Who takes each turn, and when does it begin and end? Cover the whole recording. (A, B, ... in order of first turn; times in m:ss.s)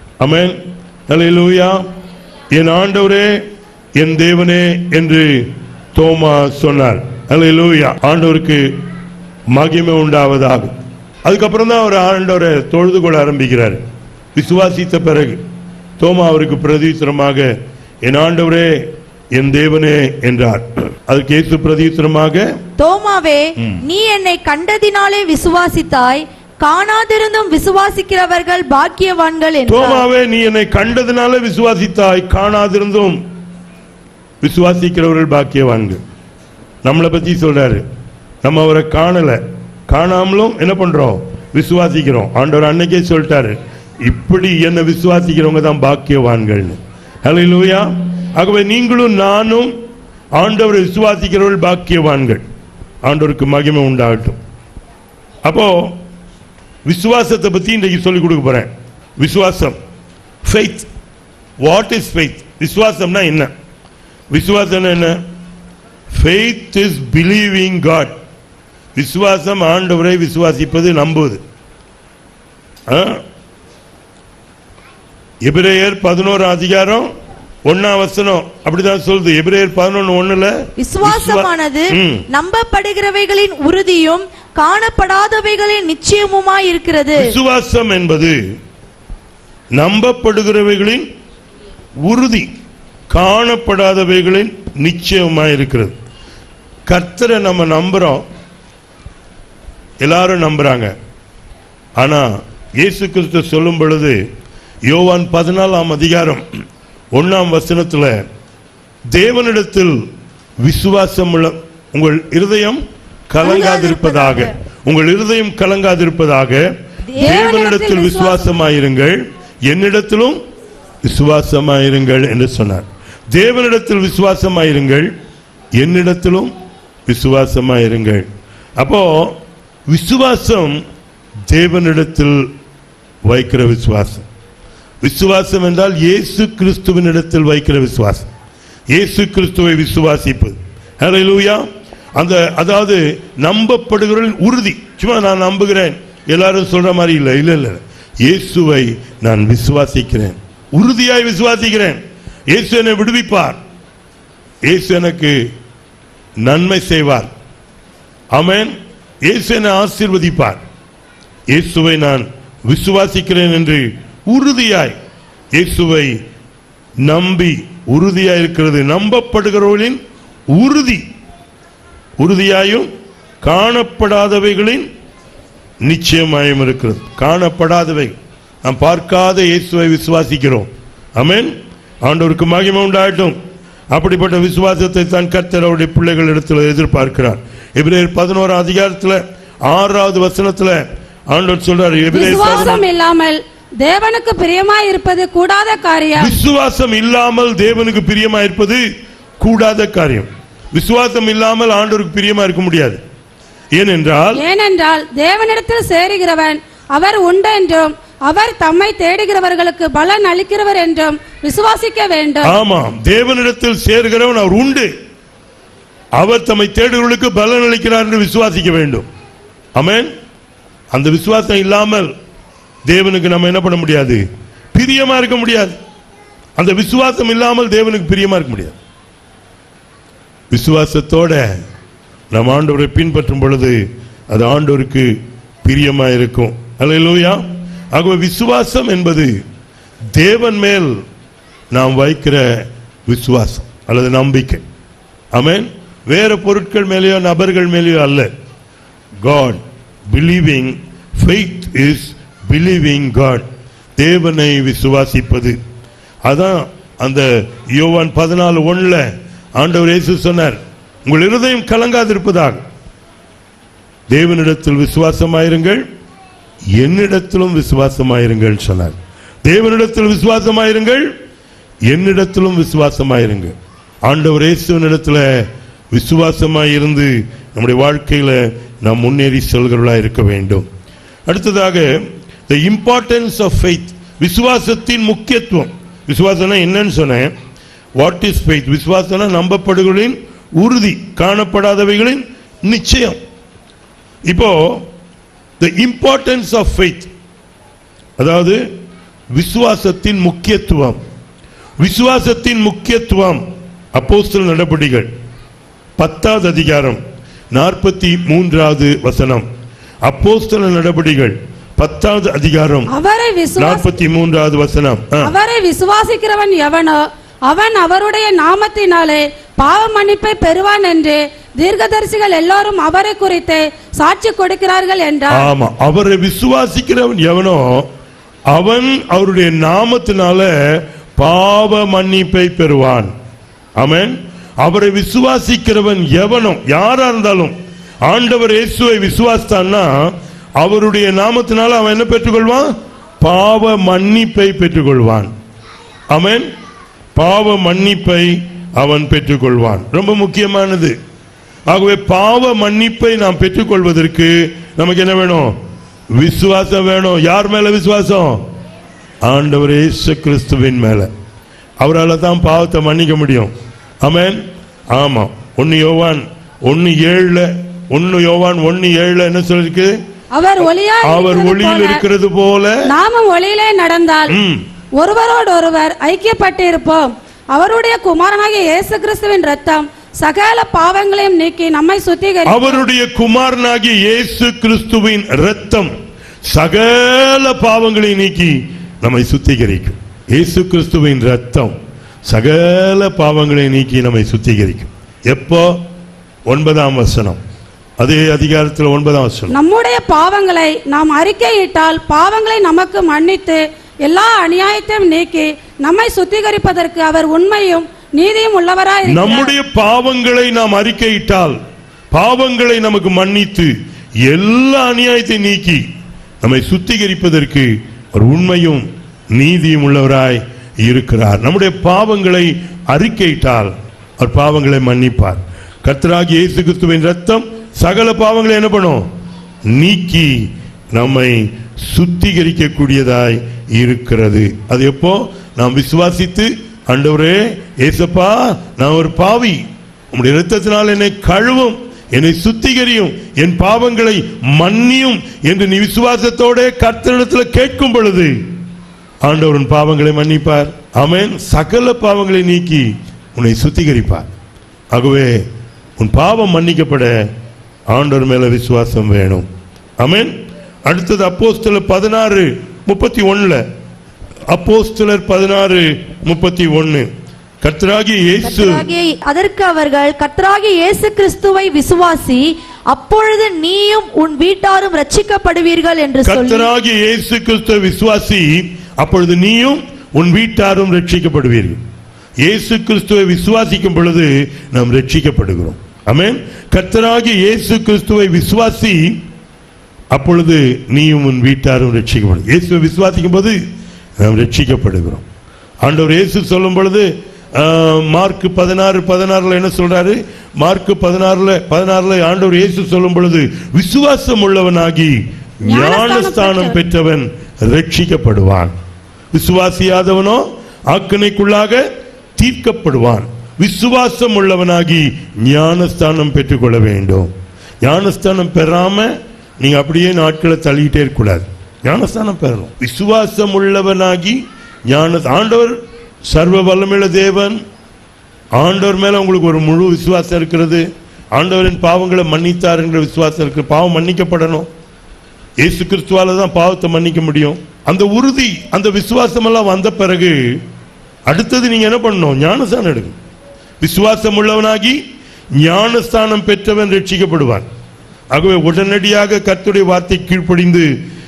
0:00.2-0:01.8 A
0:02.5-0:03.4 A
0:04.0-0:08.8 A
0:09.5-0:10.7 A
0:11.2-0:13.8 A
0:14.3-0:15.4 A
0:16.0-0:17.5 A
0:18.0-0:22.5 A
0:22.8-0:30.1 B
0:29.7-0:33.2 A
0:34.4-0:36.0 A
0:36.8-0:37.8 A
0:38.4-0:49.7 A
0:50.4-0:52.4 A
0:53.0-0:54.4 A
0:55.4-0:56.0 A
0:56.8-0:59.8 A
1:00.4-1:00.9 A
1:01.6-1:03.5 A
1:04.3-1:05.2 A
1:06.1-1:08.2 A
1:08.9-1:11.4 A
1:12.9-1:13.2 A
1:15.4-1:17.1 A
1:17.6-1:22.2 A
1:20.8-1:27.3 B
1:27.2-1:28.4 A
1:29.8-1:31.0 A
1:32.0-1:32.5 A
1:33.1-1:35.9 A
1:36.9-1:38.2 A
1:40.0-1:40.9 A
1:42.0-1:44.2 A
1:44.9-1:46.4 A
1:47.1-1:48.1 A
1:49.1-1:50.0 A
1:50.6-2:00.4 A
1:53.4-1:54.5 B
1:57.2-1:58.5 C
2:01.0-2:05.1 A
2:05.8-2:06.5 A
2:07.1-2:10.8 A
2:11.5-2:12.4 A
2:13.2-2:14.2 A
2:15.0-2:18.3 A
2:18.9-2:21.6 A
2:22.2-2:33.6 A
2:34.6-2:35.4 A
2:36.4-2:37.3 A
2:38.3-2:40.6 A
2:41.5-2:45.0 A
2:45.5-2:46.1 A
2:47.0-2:50.0 A
2:50.5-2:51.0 A
2:52.2-2:52.9 A
2:53.4-2:54.9 A
2:55.8-3:03.4 A
3:03.9-3:12.8 A
3:12.1-3:16.4 C
3:16.2-3:18.8 A
3:19.4-3:23.0 A
3:23.7-3:24.4 A
3:24.3-3:32.5 C
3:32.4-3:34.9 A
3:36.2-3:39.1 A
3:39.8-3:40.1 A
3:40.9-3:42.1 A
3:42.9-3:44.2 A
3:44.7-3:45.8 A
3:46.6-3:48.8 A
3:50.5-3:51.4 A
3:52.3-3:59.4 A
4:00.1-4:01.0 A
4:01.7-4:04.6 A
4:05.3-4:08.3 A
4:09.2-4:15.6 A
4:16.2-4:22.6 A
4:24.1-4:25.8 A
4:26.8-4:31.1 A
4:31.9-4:40.7 A
4:41.2-4:41.9 A
4:42.5-4:47.3 A
4:48.0-4:53.2 A
4:54.3-4:54.9 A
4:55.6-4:57.1 A
4:58.2-4:58.6 A
4:59.3-5:01.0 A
5:01.8-5:03.4 A
5:03.9-5:05.1 A
5:06.0-5:07.0 A
5:07.5-5:09.5 A
5:10.0-5:12.9 A
5:12.9-5:13.9 C
5:13.6-5:15.3 A
5:15.2-5:25.5 C
5:25.3-5:27.9 A
5:28.5-5:33.1 A
5:33.8-5:45.3 A
5:46.1-5:46.5 A
5:47.1-5:51.0 A
5:51.7-5:55.5 A
5:56.2-5:58.4 A
5:59.2-6:01.1 A
6:01.8-6:04.4 A
6:04.9-6:10.0 A
6:10.3-6:12.0 C
6:10.6-6:12.9 A
6:12.8-6:14.4 C
6:14.3-6:14.6 A
6:15.0-6:22.8 C
6:22.4-6:25.9 A
6:26.4-6:31.8 A
6:32.3-6:35.8 A
6:36.5-6:37.4 A
6:38.0-6:39.5 A
6:39.5-6:49.5 C
6:49.0-6:51.6 A
6:52.1-6:53.7 A
6:54.2-6:55.8 A
6:56.4-7:09.1 A
7:09.7-7:28.3 A
7:29.2-7:34.3 A
7:34.9-7:35.4 A
7:36.0-7:37.1 A
7:37.9-7:39.5 A
7:40.0-7:40.3 A
7:40.8-7:43.6 A
7:44.5-7:47.1 A
7:47.6-7:48.9 A
7:48.4-7:56.7 B
7:56.2-8:01.8 A
8:02.4-8:09.2 A
8:10.1-8:13.6 A
8:14.2-8:15.2 A
8:15.8-8:28.7 A
8:25.7-8:26.8 C
8:29.3-8:31.8 A
8:32.4-8:37.3 A
8:37.8-8:47.6 A
8:48.6-8:54.7 A
8:55.6-9:00.6 A
9:01.3-9:03.2 A
9:03.8-9:05.0 A
9:05.6-9:07.6 A
9:08.3-9:10.9 A